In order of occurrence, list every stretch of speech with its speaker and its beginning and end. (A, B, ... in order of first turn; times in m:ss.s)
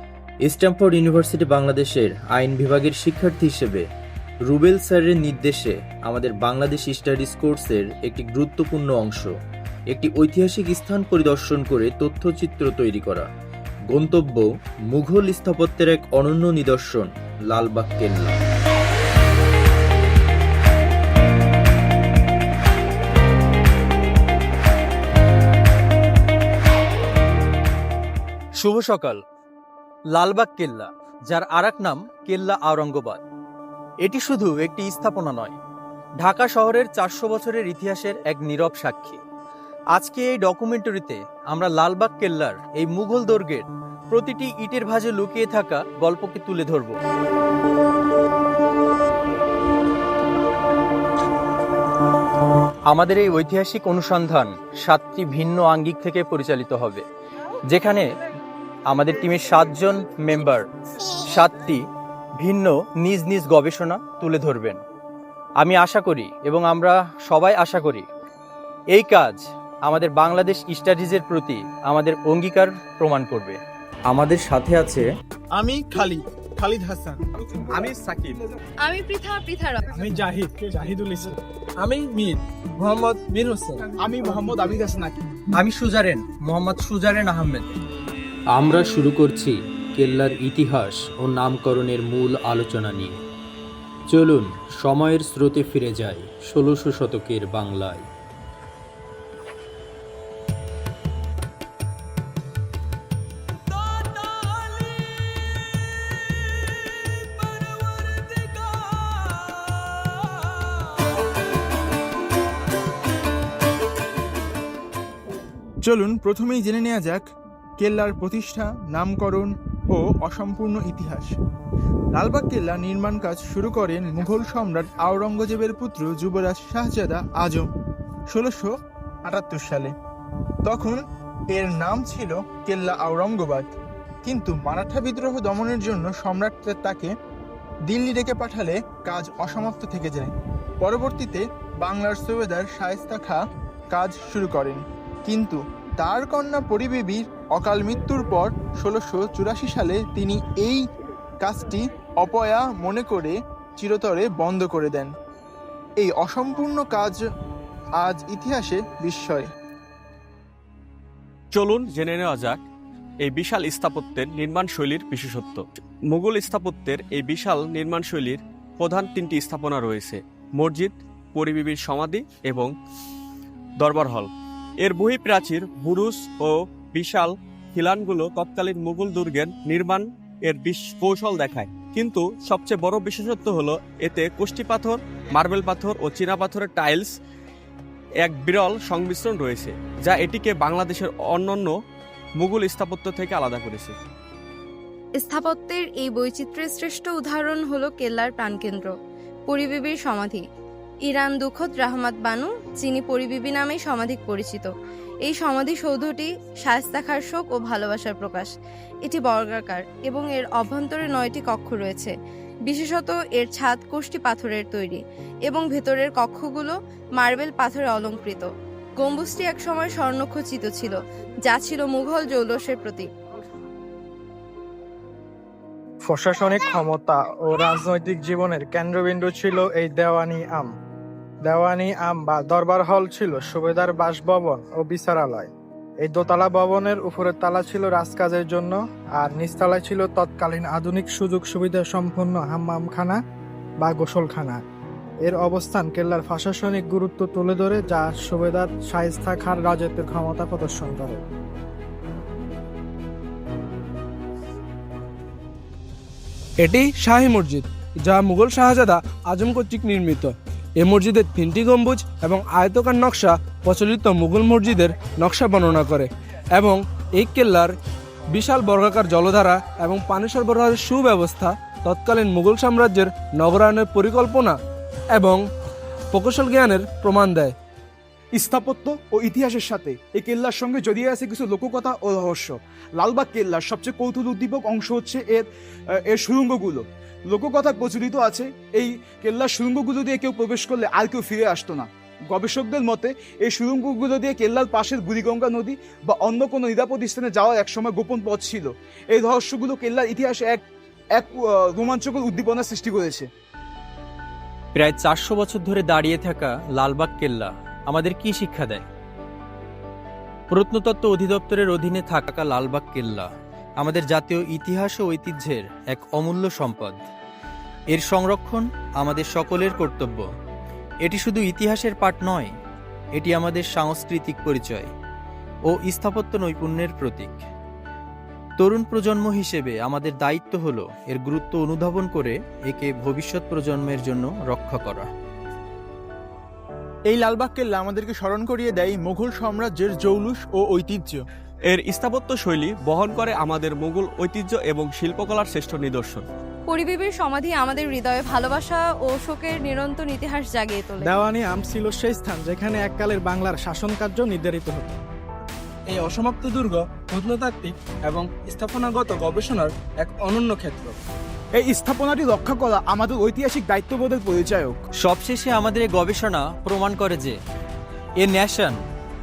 0:00.4-0:03.8 A
0:04.4-0:09.3 A
0:09.9-0:13.3 A
0:13.9-0:18.4 A
0:28.6-0:29.2 B
0:30.1-0:33.2 B
0:34.0-0:35.5 B
0:36.2-0:39.2 B
0:40.0-0:47.0 B
0:52.9-0:57.0 B
0:57.7-0:58.1 B
0:58.9-1:00.6 B
1:01.2-1:01.8 B
1:02.4-1:04.8 B
1:05.6-1:08.0 B
1:08.9-1:13.6 B
1:14.1-1:15.0 A
1:15.5-1:17.2 C
1:17.8-1:18.3 D
1:18.8-1:19.9 E
1:20.0-1:20.8 F
1:20.1-1:20.4 G
1:21.0-1:21.3 G
1:21.8-1:23.9 H
1:24.0-1:25.2 F
1:25.6-1:27.7 B
1:28.5-1:33.2 A
1:34.1-1:38.1 A
1:44.0-1:45.2 H
1:46.7-1:49.8 H
1:55.8-1:57.2 C
1:57.8-2:01.4 C
2:02.1-2:07.7 C
2:08.3-2:08.7 C
2:09.2-2:09.9 C
2:10.6-2:17.1 C
2:17.9-2:23.4 C
2:23.9-2:30.8 C
2:31.4-2:35.1 C
2:36.0-2:37.2 C
2:38.0-2:39.5 C
2:41.5-2:42.6 D
2:43.2-2:52.7 D
2:53.8-2:54.3 D
2:54.8-3:07.1 D
3:08.2-3:11.7 D
3:12.4-3:13.9 D
3:15.2-3:18.9 E
3:19.5-3:20.4 E
3:21.0-3:24.7 E
3:25.2-3:28.5 E
3:29.0-3:32.1 E
3:32.6-3:43.1 E
3:46.0-3:50.7 G
3:51.5-3:55.5 G
3:56.0-4:03.2 G
4:03.8-4:04.6 G
4:05.2-4:11.2 G
4:16.6-4:27.8 H
4:28.3-4:34.6 H
4:35.1-4:35.4 H
4:36.1-4:37.5 H
4:38.3-4:45.4 F
4:46.1-5:00.6 F
5:01.2-5:03.3 F
5:04.8-5:08.8 B
5:10.5-5:13.2 B
5:13.8-5:17.0 B
5:17.9-5:20.3 B
5:21.0-5:22.5 B
5:23.2-5:24.9 B
5:25.7-5:27.4 B
5:28.6-5:35.1 B
5:37.1-5:41.2 C
5:41.7-5:46.2 D
5:46.7-5:51.2 E
5:51.0-5:55.0 G
5:55.9-6:01.0 H
6:01.5-6:04.8 F
6:05.0-6:07.3 B
6:08.2-6:08.8 B